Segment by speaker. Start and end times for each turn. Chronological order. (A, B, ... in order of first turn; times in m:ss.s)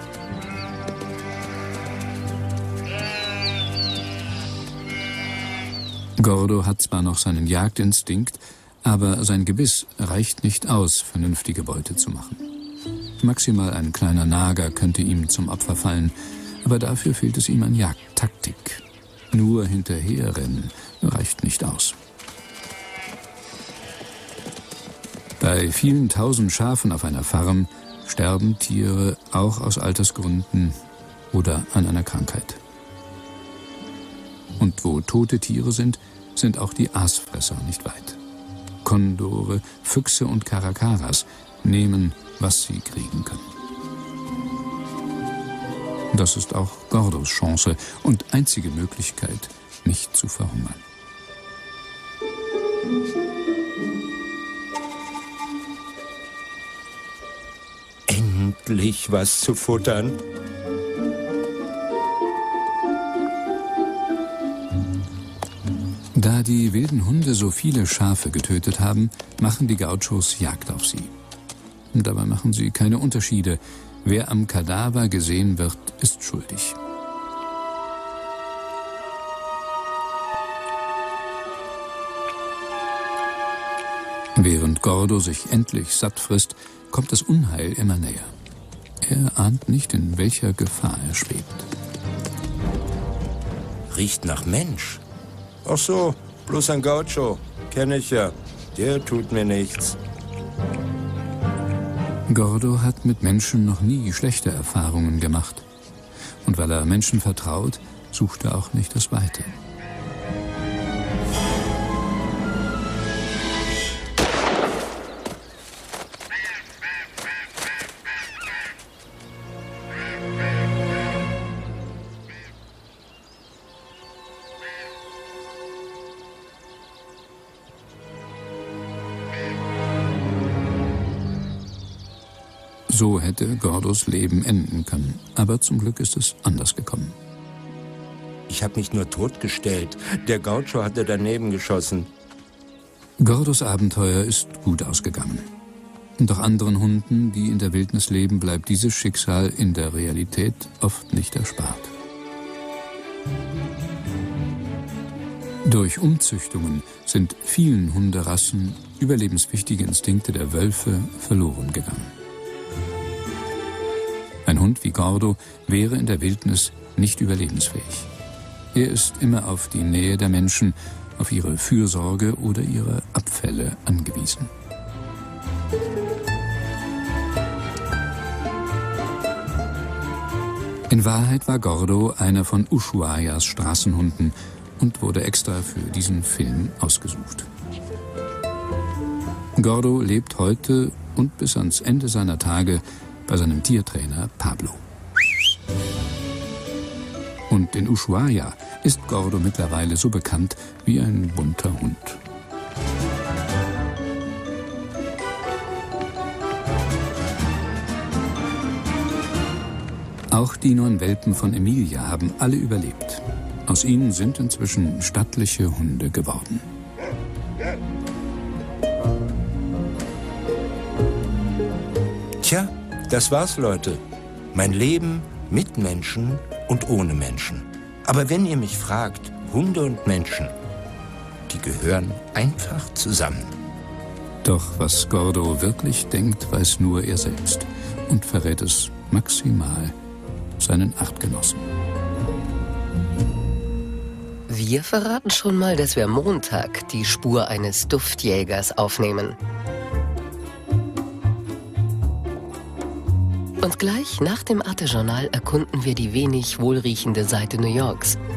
0:06.2-0:12.4 A
0:13.2-0:22.0 A
0:25.4-0:32.6 A
0:34.6-0:38.2 A
0:38.8-0:43.5 A
0:46.1-0:50.8 A
0:58.1-1:00.2 B
1:06.1-1:11.1 A
1:11.9-1:16.8 A
1:24.4-1:28.3 A
1:29.0-1:31.7 A
1:33.9-1:35.0 B
1:35.6-1:40.0 B
1:42.3-1:45.6 A
1:46.4-1:49.6 A
2:12.9-2:17.2 A
2:18.5-2:22.1 B
2:23.2-2:25.5 A
2:26.2-2:31.9 A
2:35.6-2:42.1 A
2:44.4-2:48.1 A
2:48.7-2:54.5 A
3:00.9-3:07.5 A
3:09.6-3:14.8 A
3:17.5-3:22.2 A
3:30.3-3:36.7 A
3:42.4-3:44.0 B
3:44.5-3:50.6 B
3:51.5-3:53.5 B
3:54.4-4:00.0 A
4:00.6-4:01.7 A
4:04.5-4:09.4 C
4:13.6-4:18.2 C